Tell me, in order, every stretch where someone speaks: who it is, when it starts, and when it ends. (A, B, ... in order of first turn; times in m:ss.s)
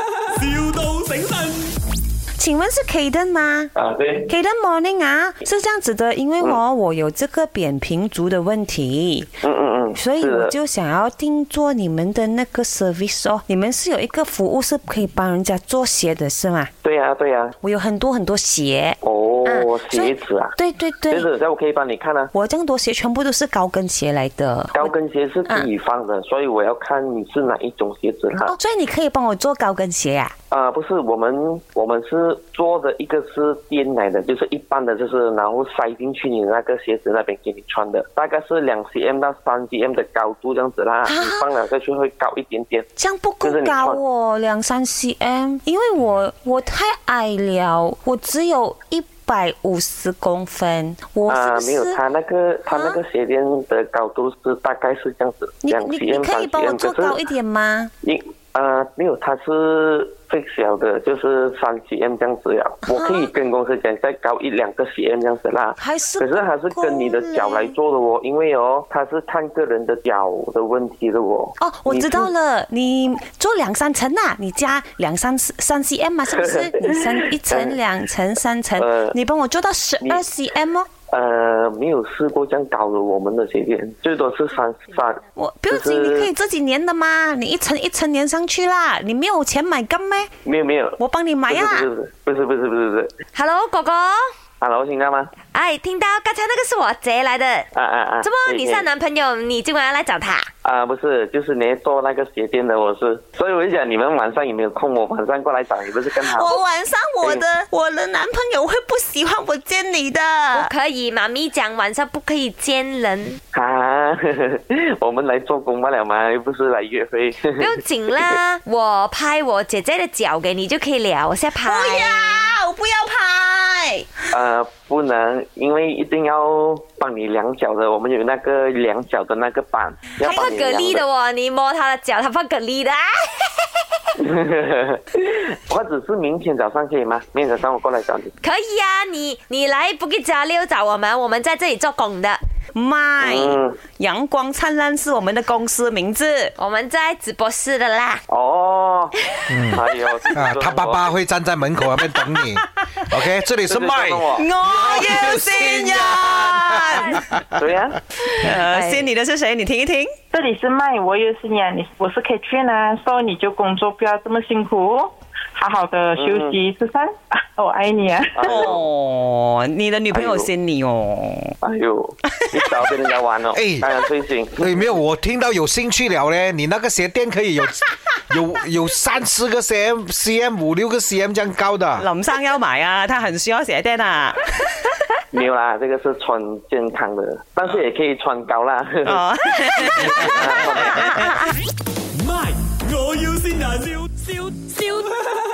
0:00.4-0:01.8 A
0:02.4-0:03.7 B
0:03.8-0:04.3 C
0:04.3-0:09.3 B
0:09.4-0:10.5 C
0:09.9-0:16.7 B
0:16.8-0:17.5 C
0:17.6-0:19.0 B
0:19.0-0:20.6 C
0:19.9-0:21.3 B
0:21.1-0:22.3 C
0:22.3-0:24.9 B
0:24.7-0:28.6 C
0:28.4-0:30.3 B
0:30.5-0:42.9 C
0:41.0-0:41.5 B
0:43.0-0:52.0 B
0:43.4-0:44.0 C
0:51.3-0:57.2 C
0:52.7-0:53.0 B
0:55.6-0:57.9 B
0:58.0-1:12.3 C
1:02.9-1:03.3 B
1:05.8-1:07.8 B
1:11.6-1:20.9 B
1:16.3-1:17.8 C
1:18.8-1:19.2 C
1:21.1-1:26.3 C
1:25.3-1:30.3 B
1:30.4-1:33.1 C
1:31.0-1:31.9 B
1:33.3-1:34.3 D
1:34.6-1:35.3 C
1:35.5-1:37.7 D
1:37.7-1:38.9 C
1:38.2-1:40.5 D
1:40.6-1:46.6 C
1:46.2-1:50.7 B
1:50.5-1:53.4 D
1:53.5-1:58.3 C
1:57.6-2:02.5 D
2:01.6-2:04.1 B
2:04.3-2:11.1 C
2:10.2-2:13.5 D
2:10.2-2:10.5 B
2:14.2-2:18.3 C
2:18.4-2:22.4 D
2:22.8-2:26.5 B
2:23.2-2:23.8 C
2:26.6-2:28.2 D
2:28.3-2:29.1 C
2:29.5-2:29.8 E
2:29.7-2:31.1 C
2:30.4-2:37.4 E
2:33.7-2:34.5 C
2:34.4-2:37.3 B
2:37.5-2:38.0 C
2:38.3-2:40.1 B
2:38.7-2:39.1 D
2:40.3-2:48.4 F
2:46.2-2:46.6 C
2:48.4-2:48.9 C
2:48.4-2:51.6 B
2:50.1-2:50.5 C
2:51.6-2:54.9 C
2:53.5-2:53.9 E
2:54.6-3:02.1 E
3:02.0-3:04.5 B
3:05.3-3:09.2 C
3:09.0-3:11.4 B
3:09.8-3:11.3 C
3:10.6-3:11.4 D
3:12.1-3:15.1 A